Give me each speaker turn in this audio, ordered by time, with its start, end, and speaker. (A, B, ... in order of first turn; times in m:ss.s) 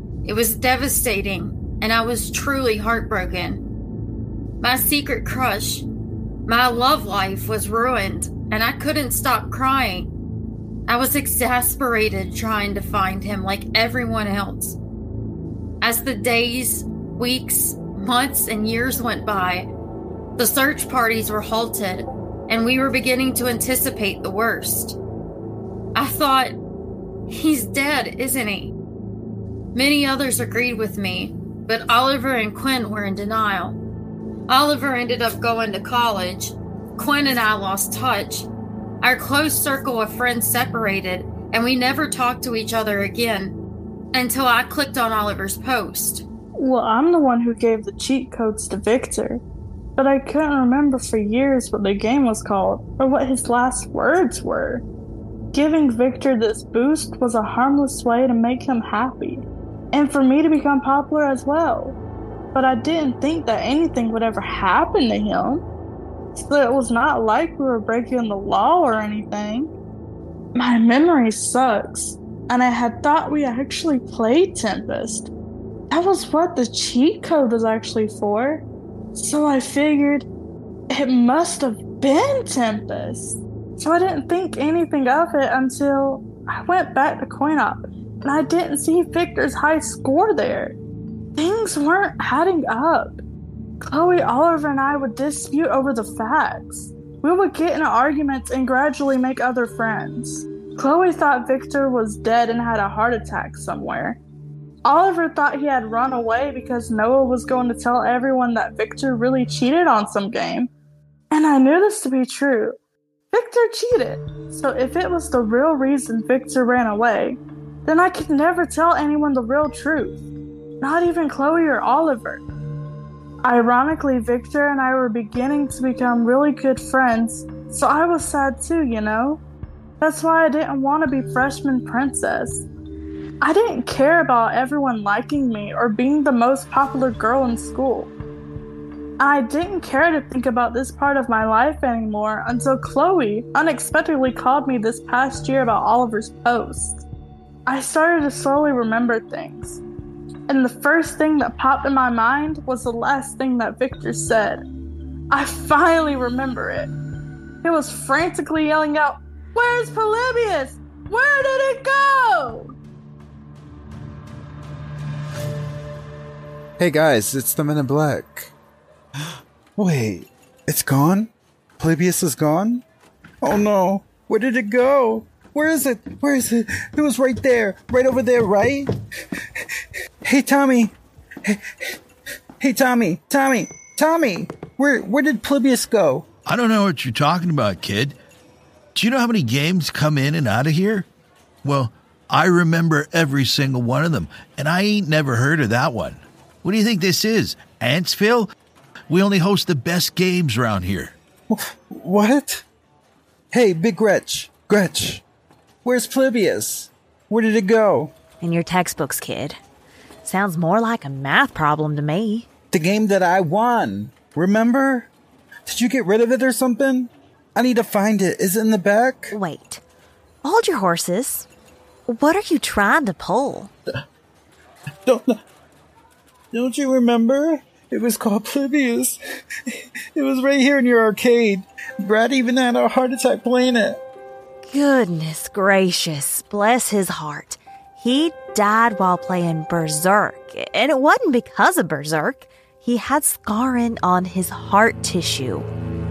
0:00.2-0:03.6 A
0:04.6-0:05.9 A
0:06.5-0:10.1 A
0:10.9-0:14.8 A
0:15.8-0:19.7 A
0:20.4-0:25.0 A
0:26.0-0:26.6 A
0:27.3-0:28.7 A
0:29.8-0:33.8 A
0:34.5-0:38.5 A
0:39.0-0:43.6 A
0:44.1-0:46.3 A
0:46.6-0:49.4 B
0:50.0-0:54.8 B
0:55.5-1:02.0 B
1:02.5-1:05.6 B
1:06.3-1:09.7 B
1:10.6-1:15.3 B
1:15.9-1:18.6 B
1:19.2-1:20.3 B
1:20.9-1:30.8 B
1:31.4-1:33.2 B
1:33.8-1:44.2 B
1:44.8-1:50.7 B
1:51.3-1:52.8 B
1:53.3-2:00.2 B
2:00.8-2:02.4 B
2:03.4-2:09.4 B
2:10.0-2:12.7 B
2:13.4-2:18.1 B
2:19.2-2:27.0 B
2:27.7-2:29.8 B
2:30.5-2:34.6 B
2:35.3-2:36.9 B
2:37.6-2:42.7 B
2:46.8-2:48.5 C
2:49.8-2:52.8 C
2:53.4-2:58.9 C
3:00.2-3:01.0 C
3:02.6-3:06.3 C
3:06.5-3:08.2 D
3:09.0-3:11.1 D
3:11.6-3:18.5 D
3:19.1-3:21.2 D
3:21.5-3:22.6 C
3:23.5-3:25.2 C
3:25.8-3:28.1 C
3:28.4-3:29.6 E
3:30.2-3:32.5 E
3:32.7-3:35.1 C
3:35.7-3:39.4 C
3:39.3-3:39.8 E
3:40.4-3:41.5 E
3:42.1-3:43.7 E
3:45.0-3:45.4 C
3:46.5-3:54.0 C
3:54.6-4:05.7 E